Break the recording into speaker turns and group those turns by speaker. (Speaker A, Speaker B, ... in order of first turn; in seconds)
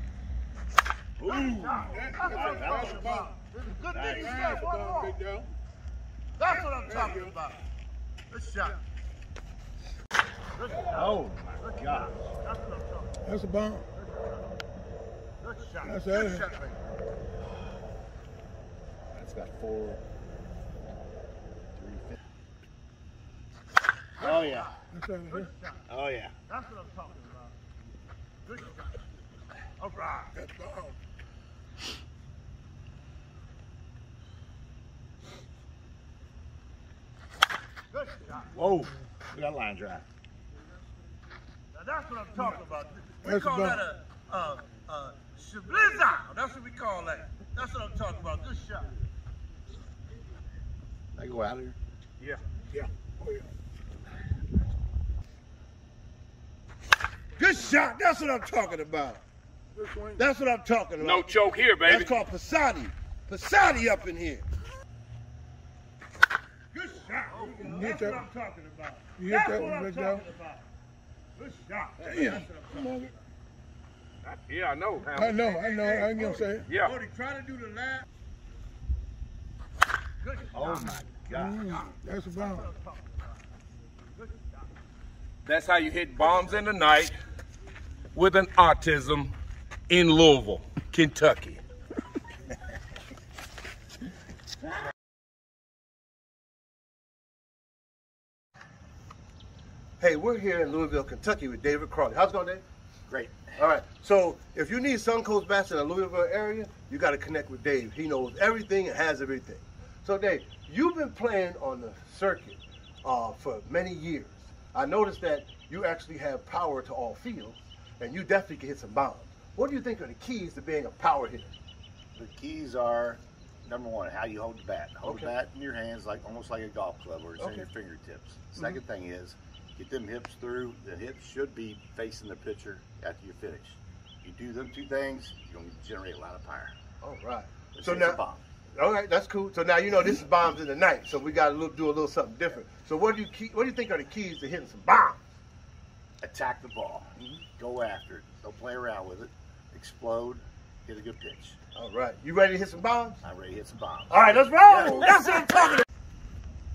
Speaker A: 1.2-3.1, 3.9-4.6, 10.9-12.2, 19.1-20.0, 21.8-22.2, 24.2-24.7, 25.9-26.3, 38.5-40.1, 51.1-51.8, 80.5-81.8, 103.1-103.5, 122.2-136.8, 137.8-138.4, 146.2-151.6, 153.2-154.3
Speaker B: 1.3-5.2, 6.4-7.6, 8.3-8.8, 10.5-13.2, 14.0-14.5, 15.4-16.8, 24.2-25.9, 26.5-27.6, 28.4-29.0, 29.8-30.4, 37.9-38.5, 41.7-48.9, 57.4-59.2, 60.2-61.3, 61.8-64.5, 66.7-70.7, 71.4-73.0, 75.4-78.0, 80.2-80.9, 82.3-83.2, 100.0-102.6, 103.6-121.5, 125.0-125.3, 127.4-127.7, 137.0-138.2, 138.8-145.2, 151.8-153.2, 154.1-155.8
Speaker C: 1.9-3.4, 4.0-5.5, 6.8-7.3, 13.2-13.8, 15.8-16.5, 24.9-25.5, 30.4-31.0, 43.2-43.8, 52.7-53.5, 59.8-60.2, 67.6-68.3, 69.2-70.2, 72.0-73.1, 75.1-76.7, 81.3-82.7
Speaker D: 61.0-62.1, 74.2-75.4, 76.7-76.9, 85.5-87.2, 88.1-89.3, 89.9-91.6